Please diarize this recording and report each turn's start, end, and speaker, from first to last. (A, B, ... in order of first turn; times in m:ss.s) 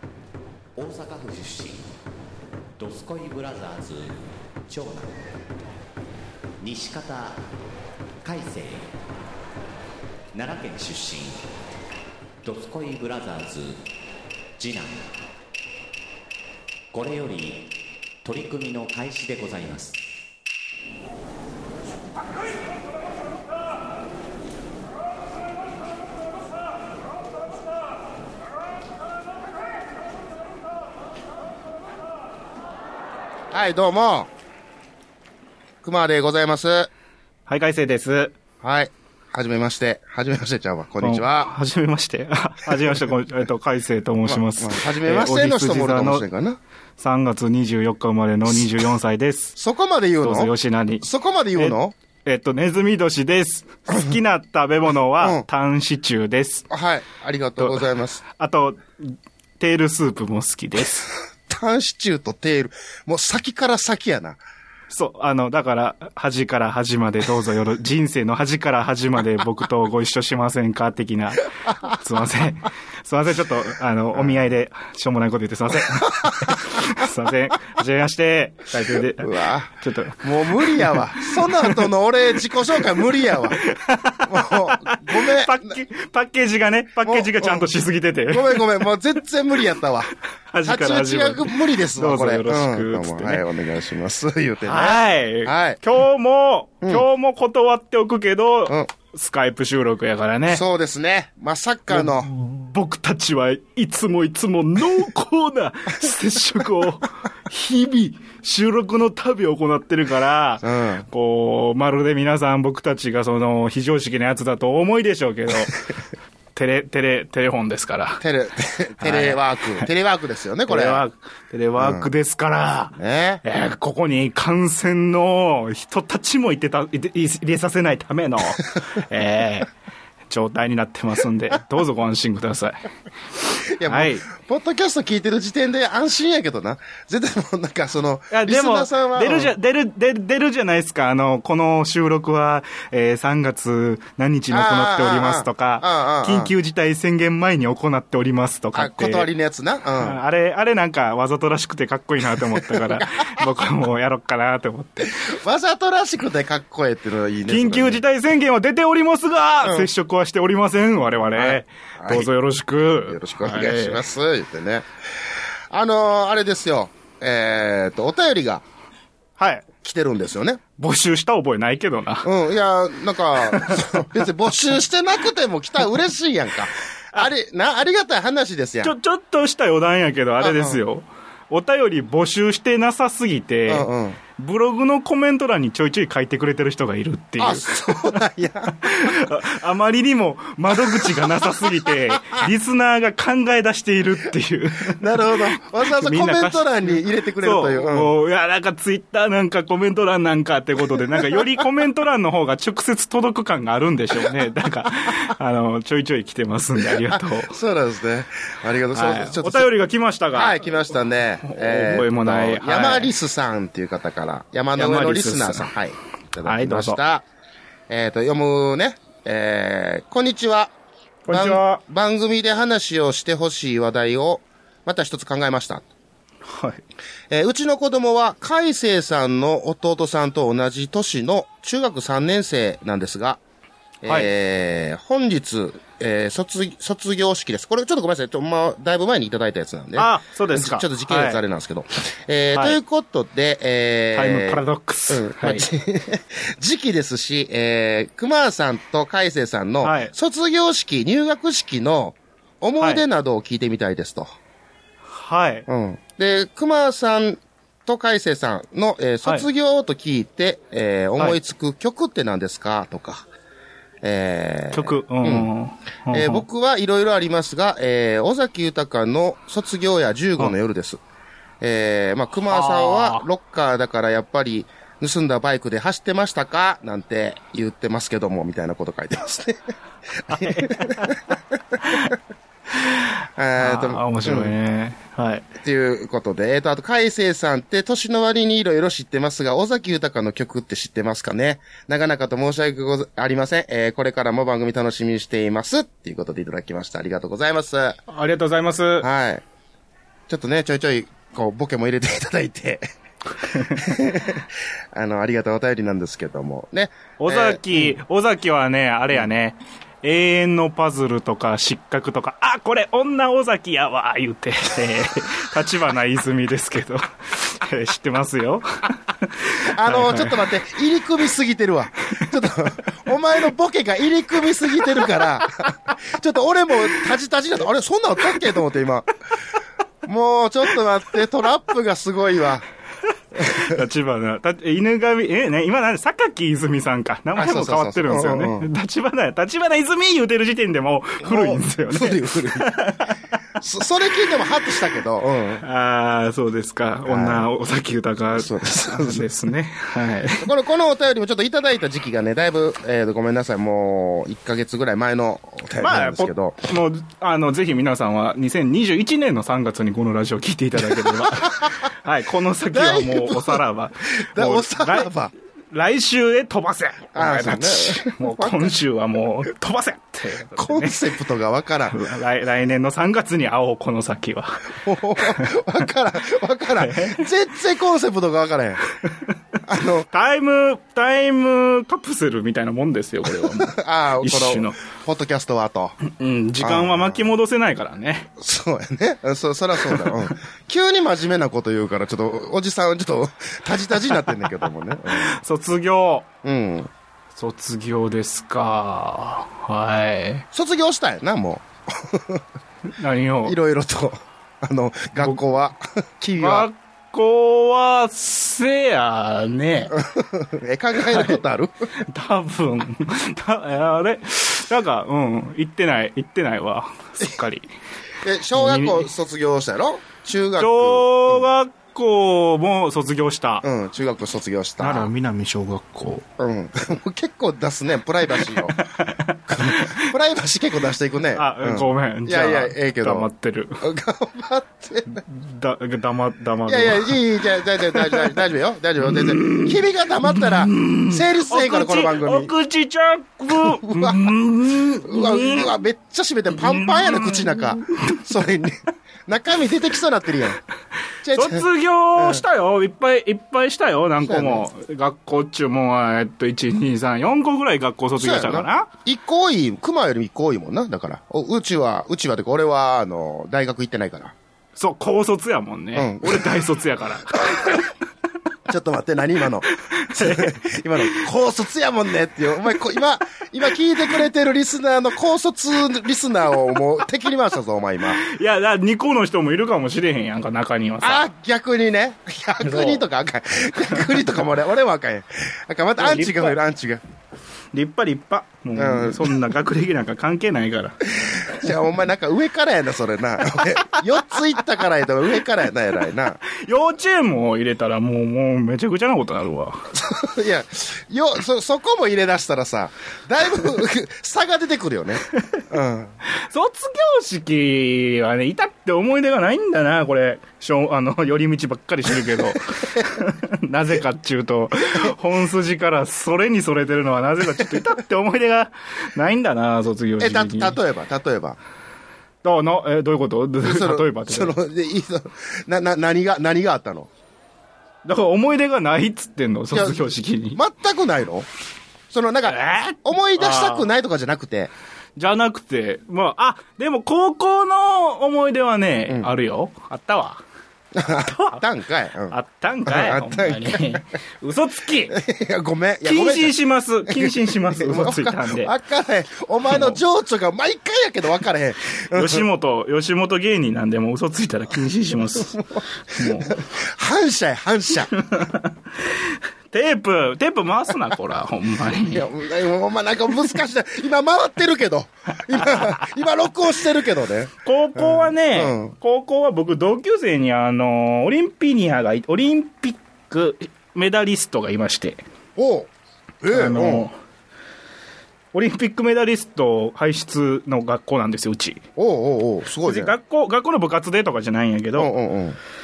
0:00.8-0:01.9 A
0:02.8-0:05.3 A
0:06.6-0:07.4 A
0:08.2-0:08.9 A
0:10.3-0:11.4 A
0:12.4-0:13.8 A
0:14.6-0:15.1 A
0:16.9-0:17.7 A
0:18.2-0:20.0 A
0:33.5-0:34.3 B
0:35.8-0:36.9 B
0:37.5-0:38.4 C
0:38.6-0:41.5 B
0:41.0-0:46.2 C
0:44.3-0:46.6 B
0:47.0-0:49.6 C
0:49.6-0:50.5 B
0:50.2-0:56.7 C
0:51.0-0:51.9 B
0:56.7-0:58.2 B
0:57.6-1:01.1 C
1:01.5-1:04.4 B
1:04.9-1:21.9 C
1:16.0-1:16.6 B
1:19.2-1:23.6 B
1:23.3-1:28.8 C
1:24.3-1:25.8 B
1:27.0-1:27.6 B
1:28.3-1:30.1 B
1:30.5-1:33.4 C
1:30.6-1:35.8 B
1:34.6-1:40.6 C
1:40.5-1:42.3 B
1:41.9-1:55.8 C
1:50.6-1:51.0 B
1:56.5-1:58.2 C
1:58.2-2:01.0 B
1:59.0-1:59.8 C
2:00.6-2:09.7 C
2:01.8-2:02.1 B
2:03.0-2:03.4 B
2:10.3-2:12.8 C
2:13.7-2:19.5 B
2:13.8-2:14.3 C
2:18.3-2:29.3 C
2:24.5-2:26.5 B
2:28.7-2:30.2 B
2:30.0-2:35.2 C
2:32.5-2:33.0 B
2:35.2-2:38.0 B
2:37.5-2:44.0 C
2:39.6-2:39.9 B
2:41.3-2:42.3 B
2:43.0-2:44.9 B
2:45.7-2:48.6 B
2:49.4-2:49.6 C
2:49.8-2:50.6 B
2:50.8-2:52.3 C
2:52.2-2:58.9 B
2:53.4-2:54.0 C
2:58.8-3:08.2 C
3:00.4-3:00.8 B
3:03.7-3:04.2 B
3:07.4-3:09.2 B
3:08.8-3:27.5 C
3:10.8-3:12.1 B
3:14.9-3:18.1 B
3:26.9-3:29.7 B
3:28.9-3:30.6 C
3:30.3-3:37.2 B
3:31.4-3:33.1 C
3:34.8-3:35.7 C
3:36.4-3:37.0 C
3:37.9-3:40.7 B
3:41.2-3:41.8 C
3:41.3-3:45.8 B
3:46.4-3:46.8 C
3:47.3-3:53.4 B
3:54.0-4:14.3 B
3:54.0-3:54.3 C
4:00.0-4:01.4 C
4:02.5-4:02.8 C
4:04.1-4:05.7 C
4:09.8-4:10.1 C
4:12.8-4:13.0 C
4:15.1-4:15.6 C
4:15.7-4:23.2 B
4:24.0-4:25.5 B
4:24.7-4:26.4 C
4:26.1-4:31.0 B
4:31.6-4:41.8 B
4:32.5-4:33.2 C
4:40.3-4:41.2 C
4:41.8-4:42.1 C
4:42.7-4:45.5 C
4:43.4-4:44.5 B
4:45.6-4:58.0 B
4:58.1-4:59.1 C
4:59.0-4:59.4 B
5:00.3-5:02.8 B
5:03.5-5:03.9 C
5:03.7-5:08.0 B
5:07.2-5:20.4 C
5:19.7-5:29.1 B
5:30.0-5:32.6 B
5:33.4-5:33.8 B
5:33.4-5:43.4 C
5:37.4-5:38.6 B
5:41.2-5:42.7 B
5:43.6-5:45.6 B
5:45.6-5:50.5 C
5:47.1-5:47.5 B
5:48.3-5:49.3 B
5:50.4-5:56.6 B
5:55.8-6:05.1 C
6:02.7-6:03.6 B
6:04.2-6:05.3 B
6:05.7-6:11.0 C
6:07.1-6:08.8 B
6:10.6-6:12.0 B
6:11.9-6:15.5 C
6:14.8-6:18.8 B
6:16.8-6:17.2 C
6:19.6-6:20.0 B
6:20.1-6:24.8 C
6:23.3-6:26.0 B
6:26.0-6:28.3 C
6:26.6-6:27.2 B
6:28.4-6:35.3 B
6:35.0-6:36.3 C
6:36.4-6:36.9 B
6:37.3-6:40.4 C
6:40.5-6:42.4 B
6:42.9-6:43.6 C
6:43.4-6:46.7 B
6:46.4-6:50.0 C
6:49.9-6:51.9 B
6:51.1-6:51.4 C
6:52.0-6:57.7 C
6:58.2-7:01.5 B
6:58.5-6:59.1 C
7:00.6-7:03.6 C
7:03.6-7:05.1 B
7:04.8-7:06.2 C
7:06.4-7:08.8 B
7:08.5-7:10.0 C
7:09.5-7:13.3 B
7:11.3-7:13.8 C
7:13.8-7:15.2 B
7:15.1-7:17.2 C
7:16.7-7:22.5 B
7:17.9-7:18.3 C
7:19.0-7:25.8 C
7:23.5-7:24.3 B
7:25.0-7:30.6 B
7:26.5-7:28.2 C
7:31.2-7:31.6 B
7:31.3-7:38.9 C
7:32.2-7:32.4 B
7:34.2-7:34.6 B
7:38.2-7:44.3 B
7:44.8-7:47.9 C
7:45.9-7:46.6 B
7:47.4-7:47.8 B
7:48.7-7:58.2 B
7:49.8-7:50.5 C
7:58.2-8:01.3 C
8:01.0-8:07.0 B
8:02.6-8:03.0 C
8:06.0-8:06.6 C
8:07.7-8:11.0 C
8:08.8-8:09.4 B
8:11.2-8:16.4 B
8:13.7-8:14.0 C
8:16.4-8:19.9 C
8:19.9-8:26.2 B
8:26.2-8:40.8 C
8:40.2-8:41.6 B
8:42.4-8:44.5 C
8:43.6-8:47.1 B
8:48.0-8:50.6 C
8:49.7-8:51.5 B
8:52.1-8:54.7 B
8:52.4-8:53.9 C
8:55.2-9:00.4 C
9:00.9-9:02.3 B
9:01.1-9:01.6 C
9:02.3-9:05.2 C
9:02.8-9:04.0 B
9:05.1-9:06.5 B
9:06.0-9:08.7 C
9:07.0-9:12.4 B
9:09.7-9:10.0 C
9:12.1-9:16.6 C
9:16.2-9:18.1 B
9:18.2-9:22.3 C
9:22.1-9:28.9 B
9:25.5-9:26.0 C
9:27.6-9:35.2 C
9:35.6-9:35.9 B
9:36.4-9:37.1 B
9:36.5-9:37.1 C
9:38.5-9:41.8 C
9:42.0-9:43.1 B
9:42.8-9:45.1 C
9:45.0-9:45.6 B